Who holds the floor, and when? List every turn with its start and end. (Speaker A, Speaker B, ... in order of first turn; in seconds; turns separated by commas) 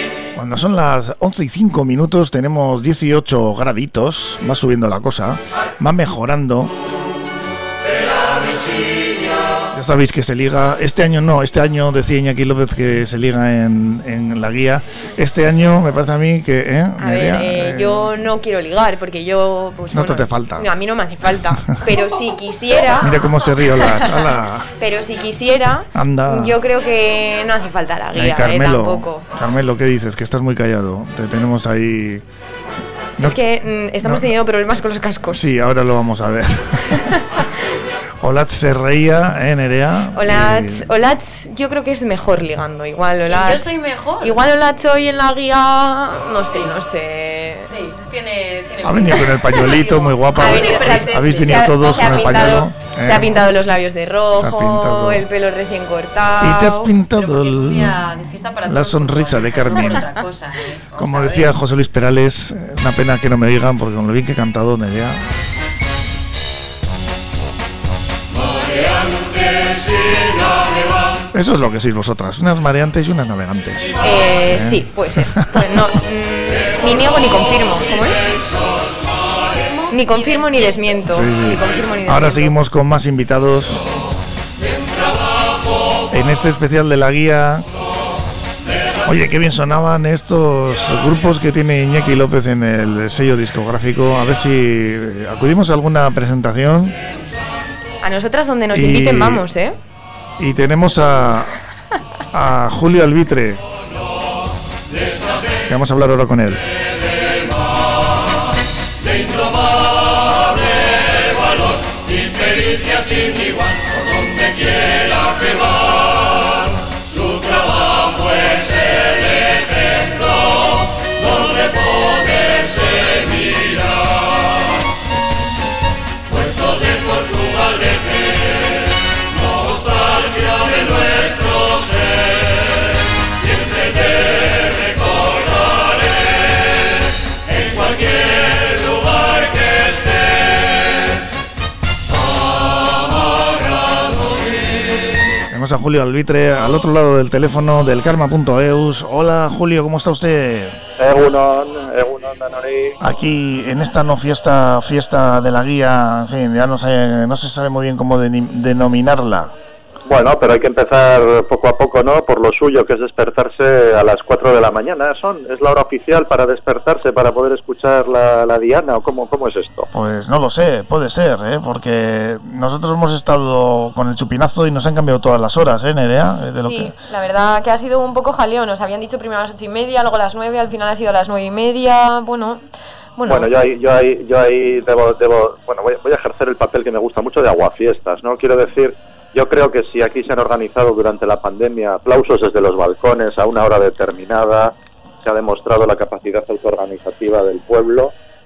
Speaker A: 0.3-6.7, Speaker A: 9.7-18.1, Speaker B: 17.0-29.2, Speaker A: 19.9-20.7, Speaker A: 21.5-21.8, Speaker A: 23.0-24.7, Speaker A: 25.9-26.6, Speaker A: 28.1-32.2, Speaker B: 33.2-35.5, Speaker A: 35.3-37.0, Speaker A: 38.2-40.8, Speaker B: 40.1-47.7, Speaker C: 43.3-44.4, Speaker C: 47.6-52.6, Speaker A: 48.8-53.4, Speaker B: 50.3-56.9, Speaker A: 54.3-55.2, Speaker A: 56.4-58.1, Speaker C: 57.1-61.6, Speaker A: 58.6-60.0, Speaker A: 60.9-65.2, Speaker A: 71.3-75.8, Speaker B: 74.0-78.2, Speaker C: 79.4-81.0, Speaker B: 79.9-82.5, Speaker A: 81.1-83.9, Speaker A: 86.1-87.7, Speaker A: 89.0-96.9, Speaker B: 98.0-99.8, Speaker A: 98.7-99.5, Speaker A: 100.4-101.6, Speaker A: 102.3-103.6, Speaker A: 105.7-106.6, Speaker A: 145.5-150.8, Speaker D: 151.0-153.0, Speaker A: 153.0-159.5, Speaker D: 160.1-169.9, Speaker A: 169.9-176.9, Speaker B: 176.6-182.6, Speaker B: 183.2-183.5, Speaker D: 183.2-198.1